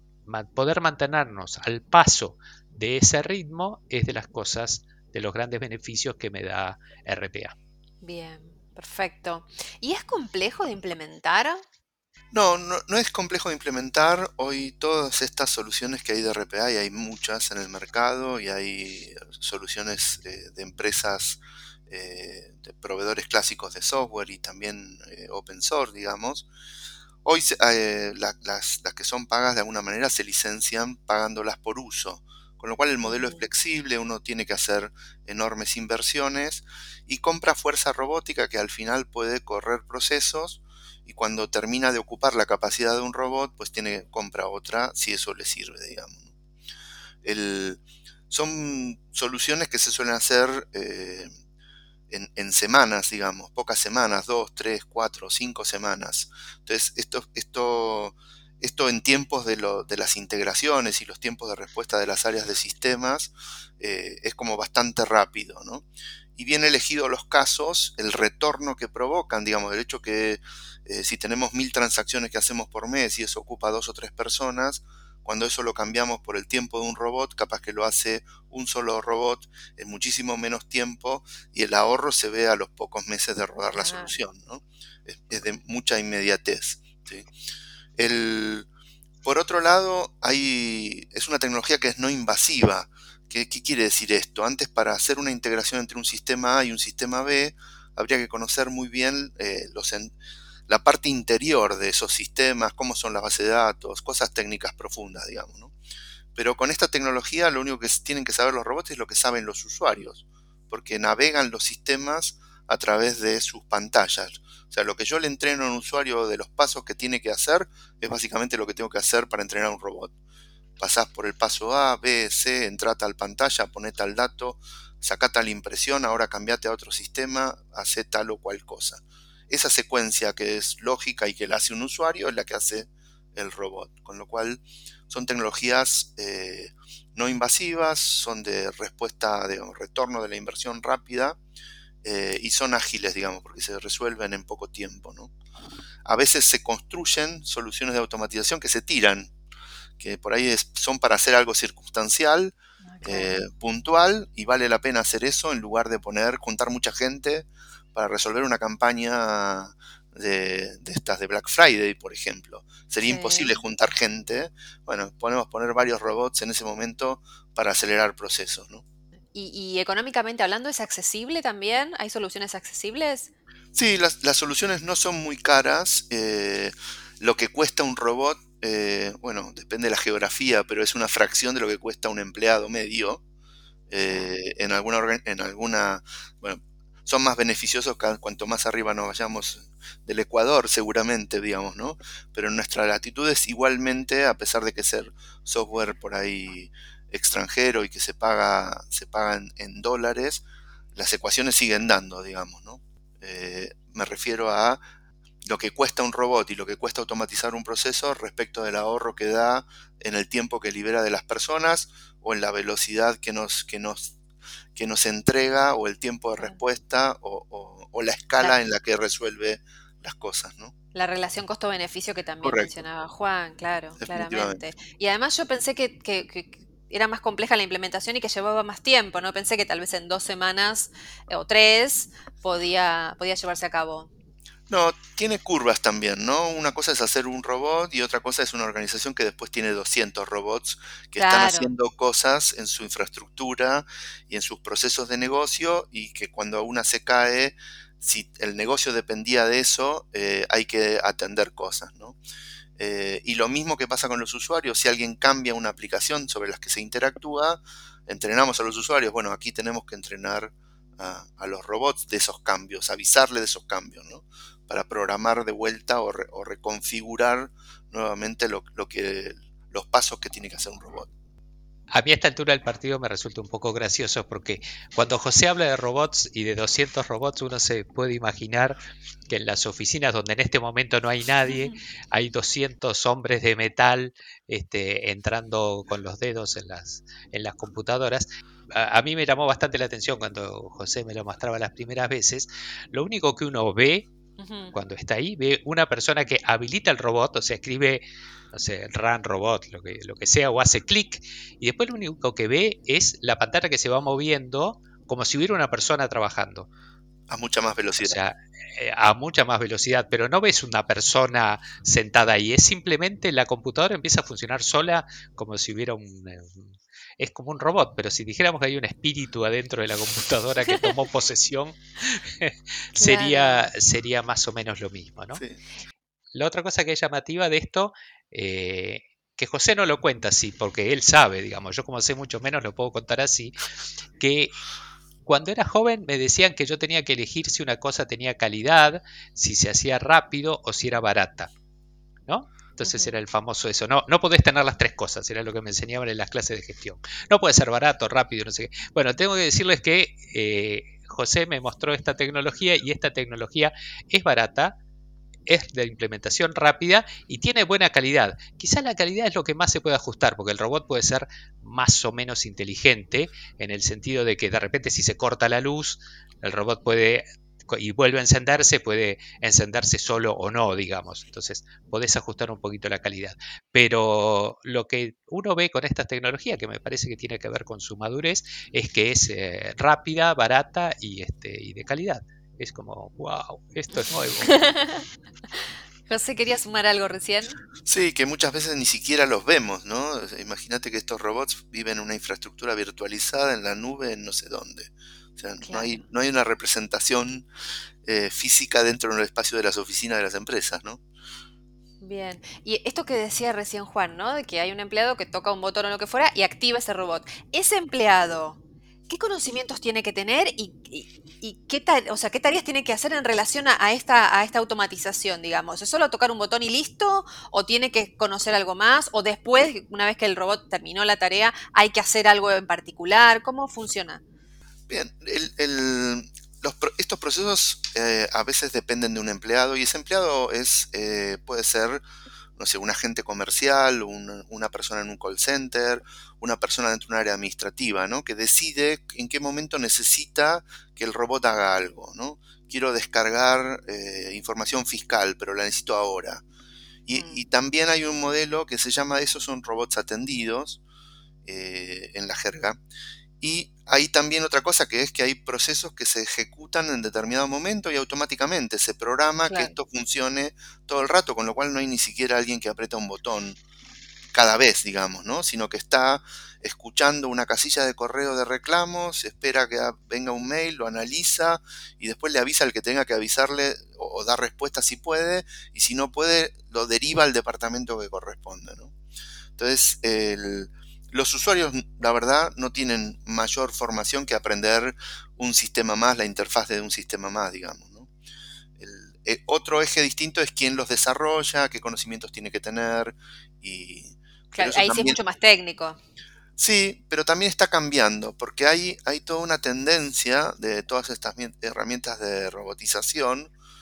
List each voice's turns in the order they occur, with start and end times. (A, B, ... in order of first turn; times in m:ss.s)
0:00.3-0:07.6 A
0:08.0-0:11.6 B
0:12.3-0:26.5 C
0:27.2-0:46.3 C
0:33.0-0:33.4 B
0:47.2-0:51.3 C
0:52.1-1:27.3 C
1:23.7-1:24.2 B
1:28.0-1:28.7 C
1:29.2-1:40.2 C
1:40.7-1:45.7 C
1:46.4-2:00.1 C
2:00.8-2:21.4 C
2:22.0-2:25.3 C
2:26.0-2:29.3 C
2:30.0-2:48.8 C
2:32.9-2:33.4 B
2:43.0-2:43.6 B
2:49.3-2:53.3 B
2:53.8-3:03.2 C
3:03.9-3:24.8 C
3:25.4-3:34.2 C
3:34.8-3:40.7 C
3:40.9-3:54.1 B
3:42.4-3:42.7 C
3:44.0-3:44.6 C
3:54.7-4:12.2 C
4:01.2-4:01.7 B
4:12.8-4:31.1 C
4:31.9-4:38.8 A
4:39.3-4:54.1 A
4:54.4-4:54.7 B
4:54.7-5:06.7 A
5:07.3-5:08.2 C
5:08.0-5:25.4 A
5:23.0-5:23.7 B
5:26.3-5:33.6 A
5:34.2-5:34.5 A
5:35.2-5:41.5 A
5:42.3-5:54.8 A
5:42.8-5:43.2 B
5:55.5-6:24.5 A
6:24.5-6:27.6 B
6:27.8-6:37.5 C
6:35.6-6:36.0 B
6:38.0-6:41.0 C
6:42.0-7:04.2 B
7:04.9-7:12.0 C
7:12.6-7:26.4 C
7:27.1-7:30.8 C
7:31.4-7:32.8 C
7:33.4-7:43.6 C
7:39.5-7:39.7 B
7:44.3-7:58.9 C
7:59.6-8:08.1 C
8:08.8-8:15.2 C
8:14.5-8:16.0 B
8:16.6-8:23.5 C